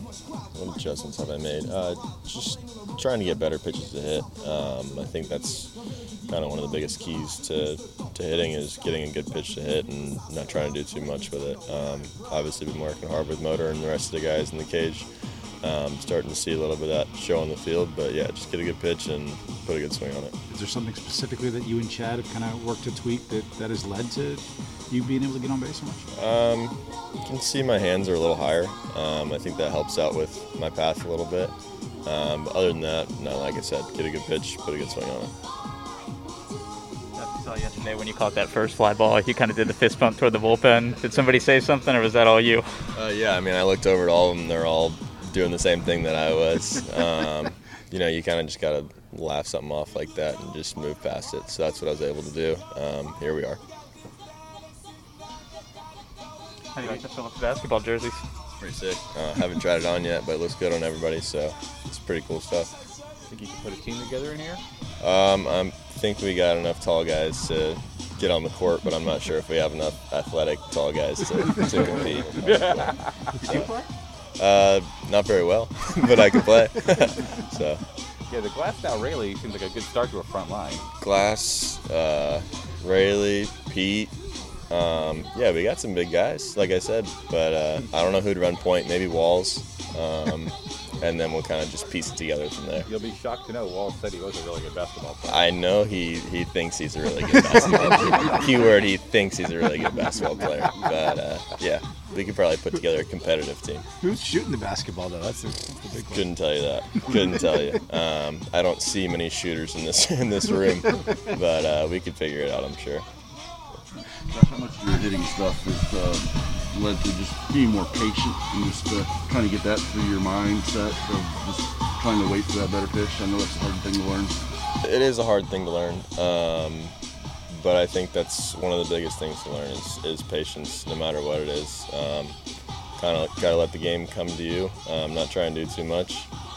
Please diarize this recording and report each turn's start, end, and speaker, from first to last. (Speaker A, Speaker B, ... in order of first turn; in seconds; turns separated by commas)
Speaker A: 0.5-5.7, Speaker A: 6.3-15.1, Speaker A: 15.6-20.3, Speaker B: 20.5-26.1, Speaker A: 26.1-31.5, Speaker A: 32.0-35.3, Speaker C: 37.2-42.7, Speaker A: 43.0-53.6, Speaker C: 56.8-58.2, Speaker A: 58.6-62.7, Speaker D: 63.3-64.6, Speaker A: 65.0-73.7, Speaker D: 72.3-73.1, Speaker A: 74.4-77.8, Speaker D: 78.3-80.8, Speaker A: 81.0-84.1, Speaker A: 84.7-92.9, Speaker D: 92.9-95.4, Speaker A: 95.3-103.8, Speaker B: 104.0-106.3, Speaker A: 106.1-113.0, Speaker E: 114.3-124.4, Speaker A: 124.8-126.9, Speaker A: 127.5-132.4, Speaker A: 133.0-136.3